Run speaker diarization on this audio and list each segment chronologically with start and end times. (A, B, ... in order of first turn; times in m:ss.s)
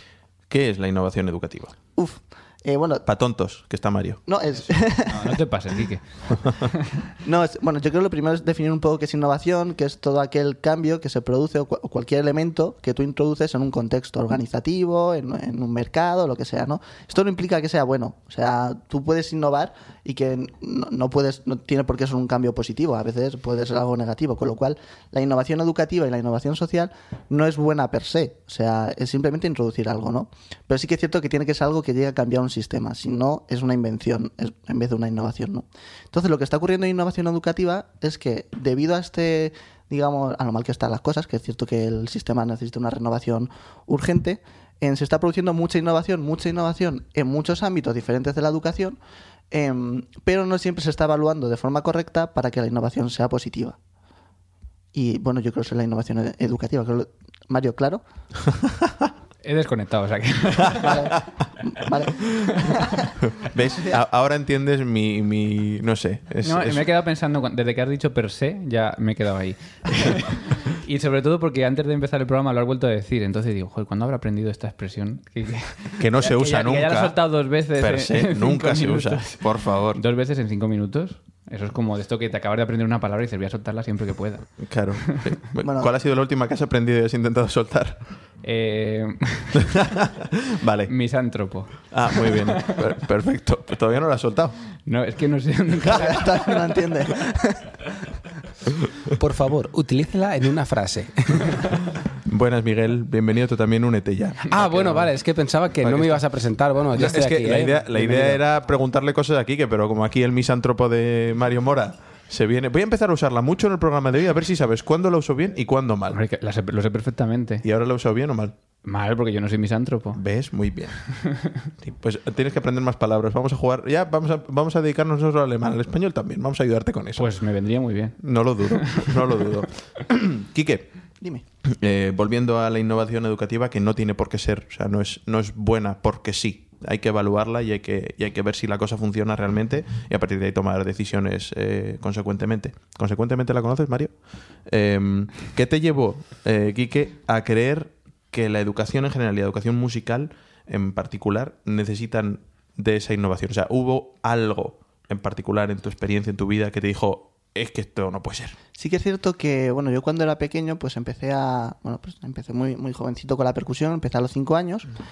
0:00.5-0:01.8 A
0:02.0-0:03.0 B
0:03.1-0:04.2 A
0:04.3-0:05.4 B
0:05.1-0:06.8 C
0:07.2-0:49.0 B
0:49.5-0:53.8 B
0:54.9-0:58.0 B
0:59.4-1:01.1 C
1:00.8-1:03.1 B
1:03.2-1:06.9 A
1:06.4-1:19.4 C
1:16.0-1:17.2 A
1:17.8-1:20.0 A
1:19.9-1:24.5 C
1:24.6-1:28.0 A
1:25.6-1:25.9 B
1:28.4-1:29.7 C
1:29.7-1:30.9 A
1:30.9-1:32.7 C
1:31.9-1:34.6 A
1:34.9-1:36.5 C
1:35.9-1:37.7 B
1:39.2-1:41.6 D
1:42.2-1:45.1 A
1:44.5-1:48.4 D
1:45.8-1:46.2 A
1:47.0-1:56.2 A
1:56.1-1:57.6 C
1:57.6-1:58.6 A
1:58.8-2:00.2 C
2:00.1-2:01.0 A
2:01.2-2:01.5 C
2:01.8-2:07.3 A
2:07.2-2:08.2 C
2:08.2-2:10.9 A
2:08.7-2:09.1 C
2:11.7-2:24.2 A
2:24.7-2:38.6 A
2:38.8-2:44.9 B